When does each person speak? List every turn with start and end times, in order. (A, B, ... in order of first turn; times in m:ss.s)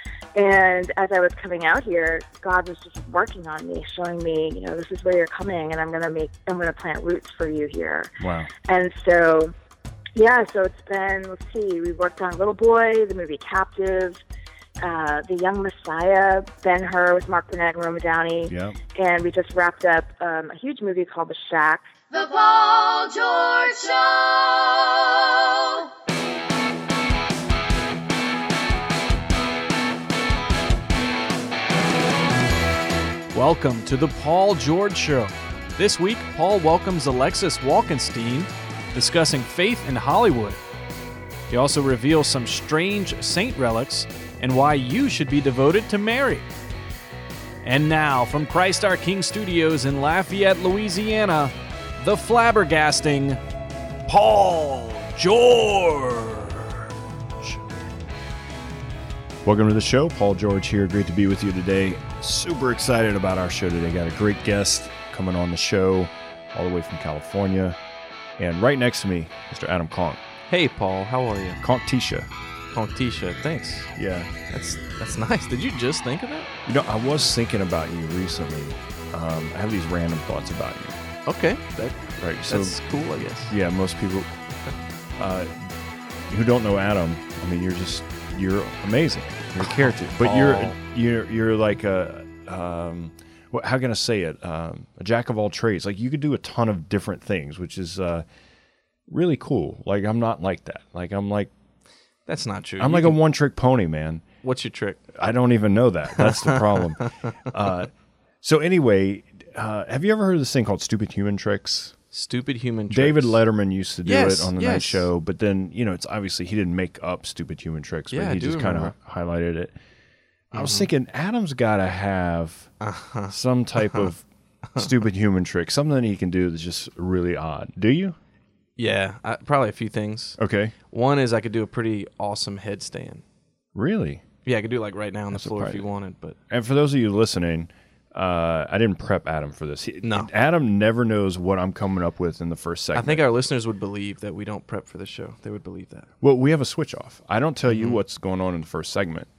0:00.4-0:08.1 A
0:08.2-0:08.5 B
0:08.6-0:09.5 A
0:10.2-0:14.2 A
0:14.8-0:21.9 A
0:18.5-0:18.8 B
0:22.1-0:25.9 C
0:33.3-0:40.6 D
0:41.5-0:46.5 D
0:47.6-0:53.4 D
0:54.1-0:56.9 D
0:59.4-1:07.8 B
1:08.4-1:10.2 B
1:10.5-1:11.6 E
1:11.6-1:12.3 B
1:12.7-1:13.9 E
1:14.0-1:14.3 B
1:14.5-1:16.5 E
1:16.7-1:21.0 B
1:21.3-1:23.5 E
1:22.2-1:22.8 B
1:23.4-1:24.3 B
1:25.2-1:25.5 B
1:26.3-1:38.2 B
1:29.6-1:30.8 E
1:39.1-1:41.5 B
1:42.3-1:43.2 E
1:42.8-1:44.2 B
1:44.4-1:45.1 E
1:45.1-1:47.9 B
1:46.2-1:46.6 E
1:48.4-1:52.0 B
1:52.1-1:53.4 E
1:52.9-1:59.7 B
1:54.0-1:55.1 E
1:58.1-1:58.9 E
2:00.5-2:02.7 B
2:00.5-2:00.9 E
2:02.8-2:04.1 E
2:03.3-2:08.2 B
2:08.8-2:10.4 E
2:10.4-2:10.7 B
2:10.9-2:13.2 E
2:13.8-2:14.2 B
2:14.4-2:16.4 E
2:15.3-2:15.9 B
2:16.5-2:23.2 B
2:20.0-2:20.3 E
2:23.0-2:26.1 E
2:26.2-2:29.3 B
2:27.7-2:28.0 E